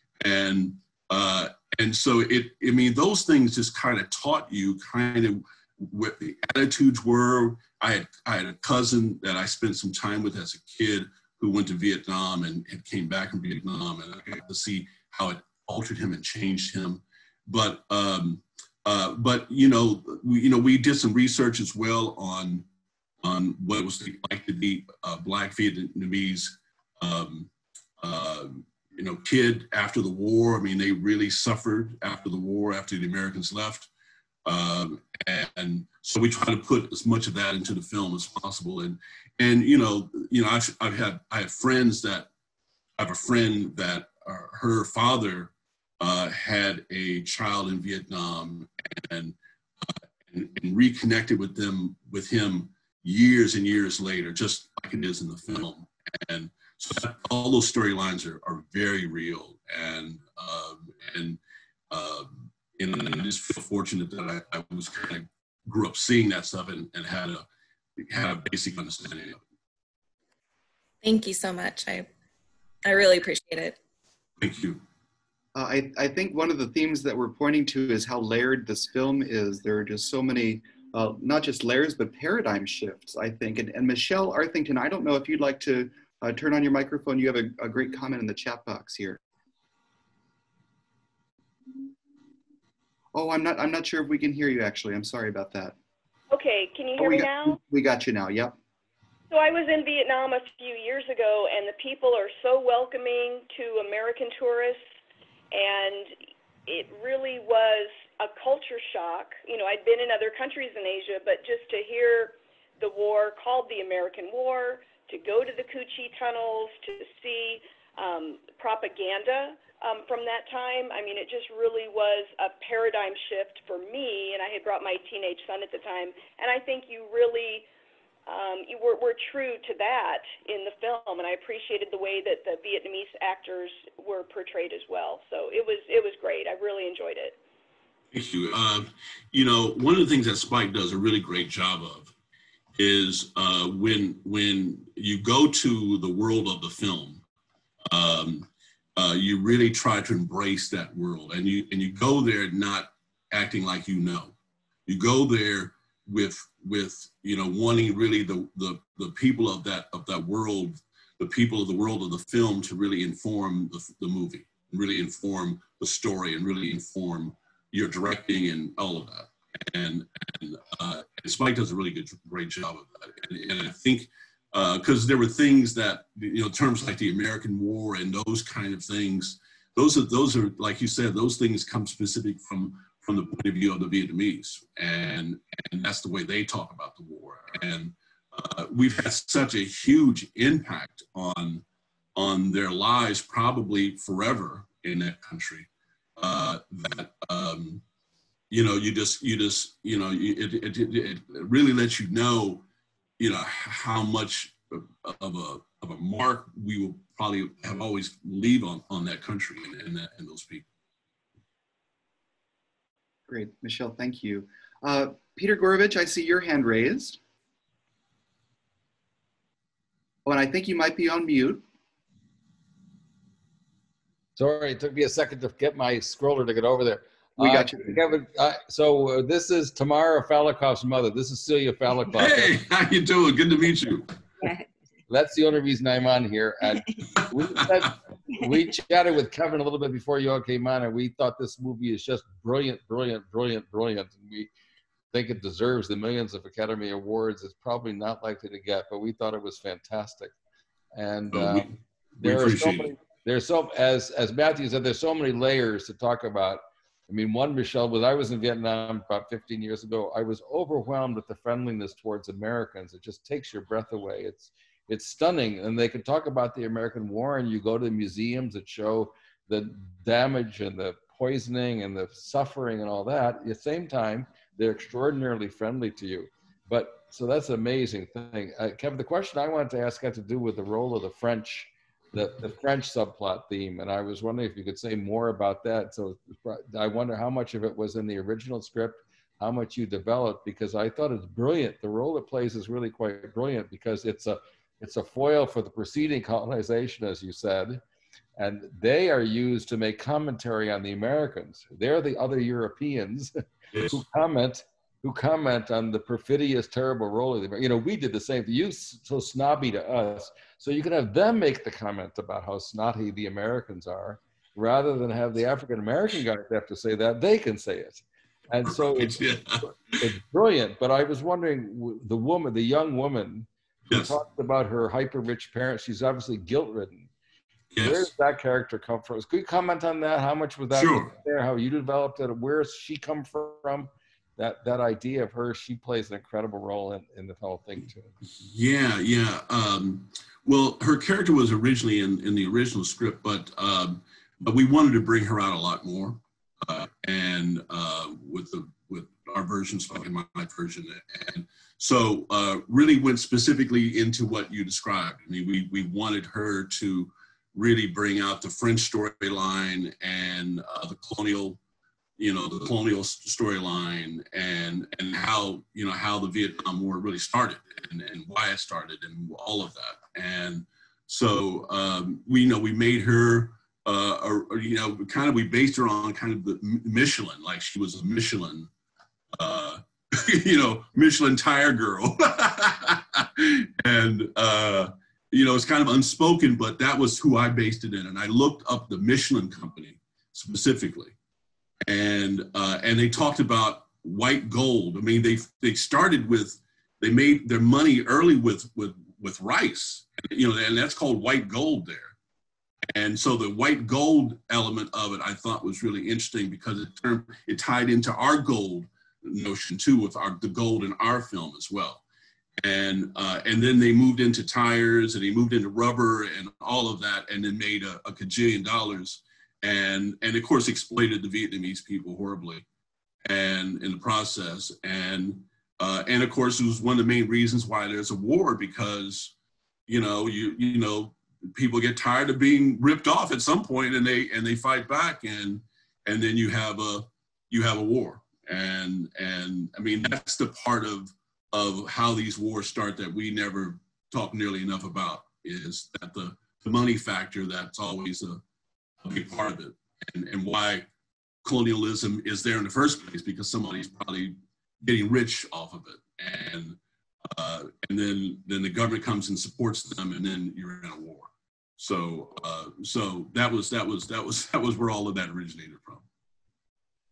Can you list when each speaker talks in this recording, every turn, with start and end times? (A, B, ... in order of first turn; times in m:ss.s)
0:00.2-0:22.6 A
0:23.2-0:33.9 A
0:34.4-0:42.3 A
0:43.0-0:49.4 A
0:50.3-1:01.4 A
1:01.9-1:07.4 A
1:08.0-1:09.4 A
1:11.0-1:12.1 B
1:12.8-1:13.8 B
1:14.4-1:14.8 A
1:15.5-1:29.2 C
1:33.1-1:35.8 C
1:36.3-1:37.6 D
1:37.0-1:38.5 C
1:39.3-1:44.8 D
1:45.5-1:46.2 D
1:46.7-2:07.7 D
2:08.3-2:17.4 D
2:18.1-2:22.1 A
2:22.8-2:27.2 A
2:27.9-2:34.3 A
2:34.9-3:11.6 A
3:12.2-3:17.8 A
3:18.5-3:22.6 A
3:23.2-3:30.6 A
3:33.3-3:37.2 C
3:40.2-3:41.6 C
3:44.4-3:52.6 E
3:47.4-3:48.0 C
3:52.1-3:54.1 A
3:55.1-4:04.5 E
4:05.1-4:10.3 E
4:10.9-4:57.8 E
4:11.3-4:12.9 A
4:58.4-5:03.3 E
5:03.7-5:04.0 A
5:03.9-5:27.1 E
5:18.6-5:19.6 A
5:27.7-5:28.1 A
5:27.8-5:38.1 E
5:30.7-5:31.1 A
5:38.3-6:01.6 A
6:02.2-6:18.7 A
6:19.3-6:31.1 A
6:31.9-6:42.1 A
6:42.9-6:52.0 A
6:52.6-7:02.6 A
7:03.3-7:09.3 A
7:09.9-7:28.4 A
7:29.0-7:30.9 A
7:31.4-7:36.8 A
7:37.3-7:46.0 A